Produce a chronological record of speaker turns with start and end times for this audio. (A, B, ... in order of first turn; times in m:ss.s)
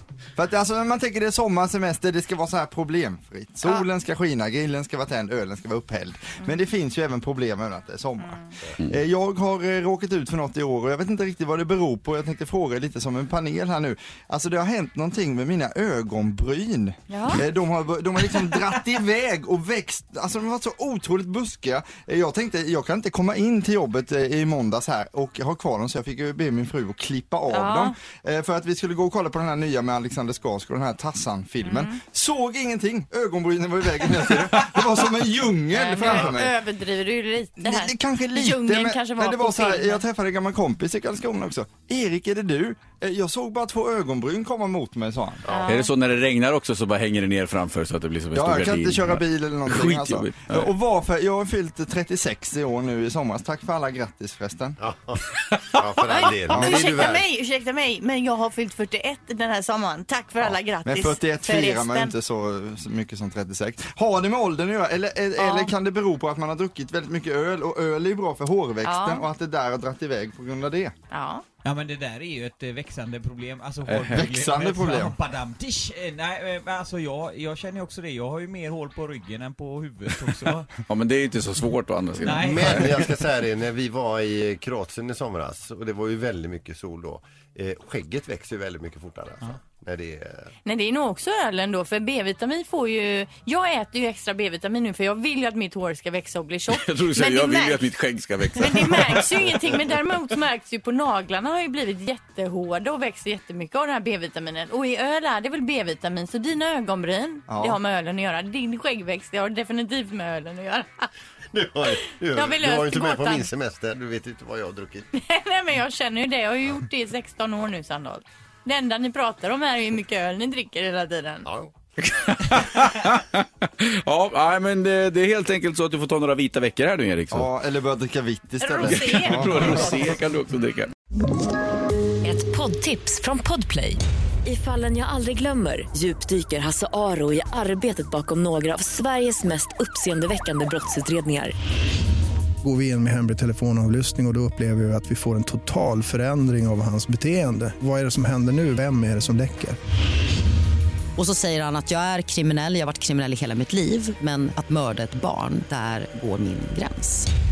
0:00.4-0:36.5 A
0:08.2-0:08.5 B
0:17.1-0:17.4 B
0:27.5-0:27.9 B
0:31.6-0:31.9 B
0:35.7-0:40.0 B
0:37.6-0:45.4 A
0:45.4-0:45.8 C
0:45.5-0:45.9 B
0:45.6-0:50.7 D
0:48.3-0:54.8 A
0:54.8-0:57.2 C
0:56.1-1:02.1 B
0:56.5-0:56.8 A
1:00.8-1:10.9 A
1:05.4-1:05.7 B
1:08.8-1:09.2 B
1:11.1-1:11.4 B
1:11.6-1:20.7 E
1:14.1-1:15.1 A
1:20.9-1:23.0 D
1:22.2-1:30.5 C
1:22.2-1:23.0 E
1:30.6-1:37.8 B
1:36.7-1:39.6 D
1:38.6-1:51.1 B
1:47.5-1:47.8 A
1:51.5-1:55.1 C
1:51.9-1:53.5 B
1:55.1-2:01.5 B
2:01.4-2:01.7 C
2:02.0-2:07.5 D
2:07.3-2:09.9 A
2:08.6-2:10.1 B
2:08.8-2:10.9 D
2:12.2-2:21.5 F
2:22.6-2:29.8 G
2:31.2-2:37.3 H